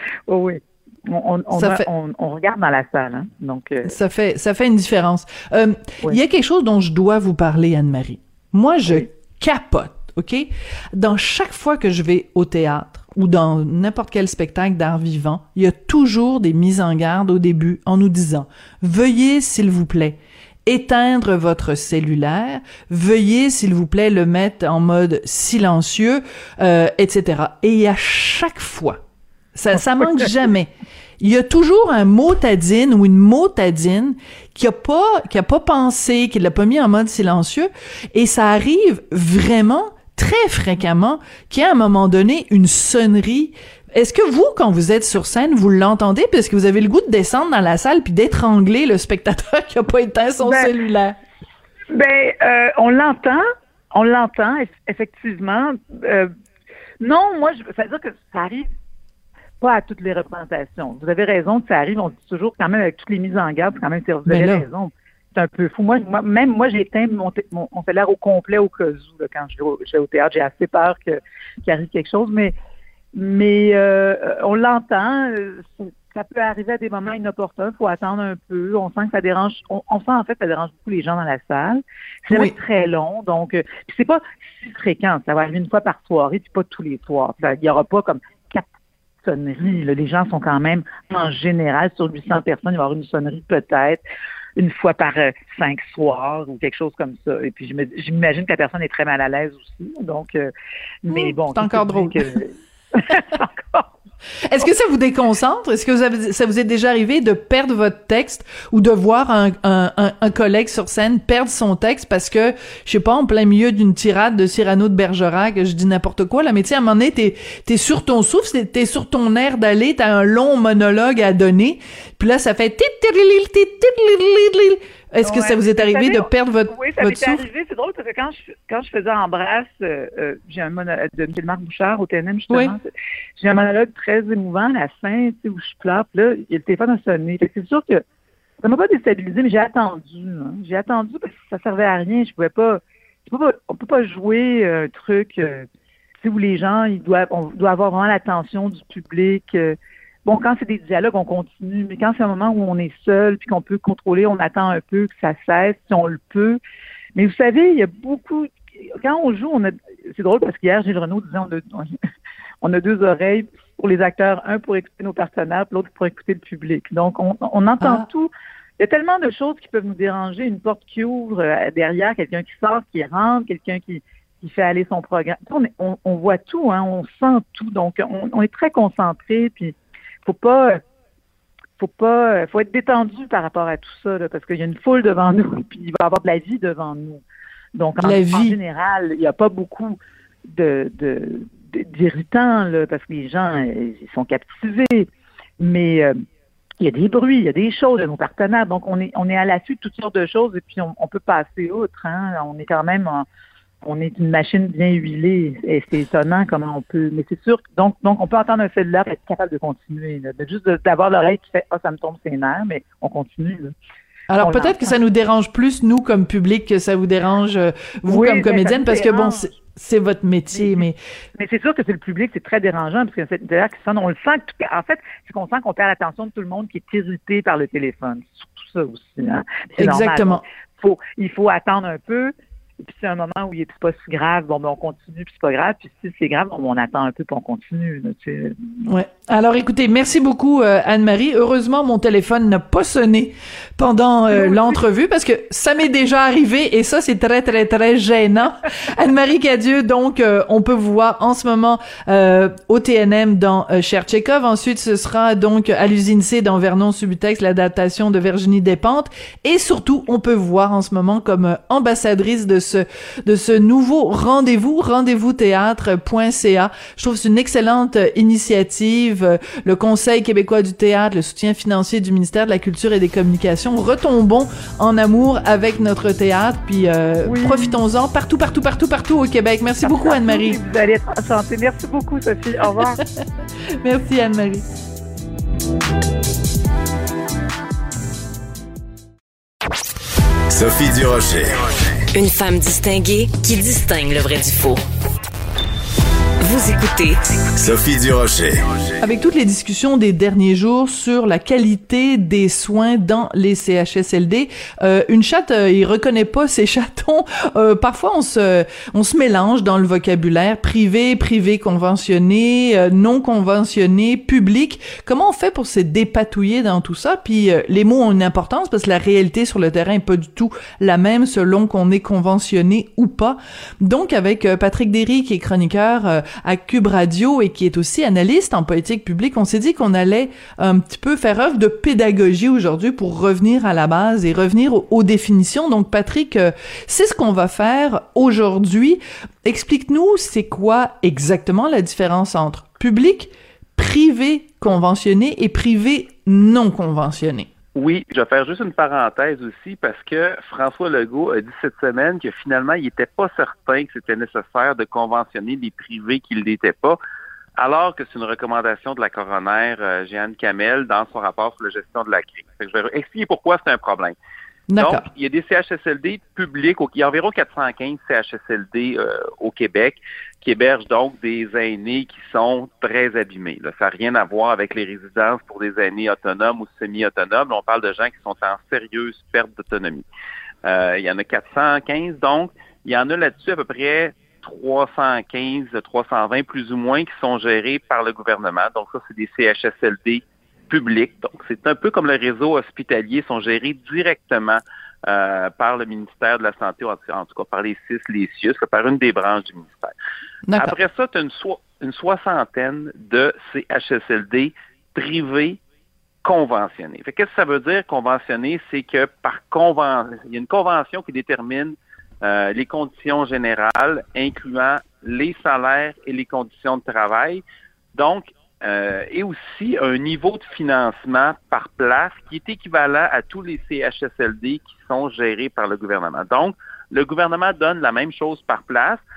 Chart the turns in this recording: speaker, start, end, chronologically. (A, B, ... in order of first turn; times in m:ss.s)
0:00.3-0:04.0 A
0:01.5-0:01.9 B
0:03.8-0:29.0 B
0:29.6-0:51.2 B
0:30.0-0:30.3 A
0:50.4-0:50.7 A
0:51.9-0:56.3 A
0:57.0-0:58.7 A
0:59.6-1:12.6 A
1:04.3-1:04.7 B
1:13.1-1:28.7 A
1:22.3-1:22.6 B
1:29.2-1:34.0 A
1:34.6-1:40.5 A
1:41.0-1:43.9 A
1:41.1-1:42.2 B
1:44.4-2:07.4 B
2:05.2-2:12.8 A
2:12.5-2:12.8 B
2:13.4-2:18.0 A
2:18.6-2:25.7 A
2:26.2-2:36.6 A
2:37.2-2:41.9 A
2:42.6-3:00.8 A
2:47.8-2:48.1 B
3:01.8-3:07.2 A
3:07.8-3:16.1 A
3:08.0-3:08.6 B
3:16.8-3:23.2 A
3:23.8-3:33.7 A
3:34.3-3:41.0 B
3:34.4-3:35.0 A
3:38.1-3:39.5 A
3:40.5-3:40.8 A
3:41.4-3:58.9 A
3:49.8-3:50.4 B
3:58.9-4:40.6 B
4:04.3-4:04.8 A
4:37.2-4:37.8 A
4:39.8-4:43.0 A
4:43.8-4:44.6 B
4:50.5-4:51.6 C
4:52.1-4:54.8 D
4:56.4-4:57.2 D
4:57.6-4:58.9 C
4:59.0-5:47.5 B
5:47.8-5:57.0 E
5:57.6-6:04.2 E
6:04.7-6:05.1 B
6:04.8-6:20.1 E
6:20.6-6:39.9 E
6:40.5-6:40.8 B
6:40.6-6:45.6 E
6:46.2-6:57.4 E
6:57.9-7:09.0 E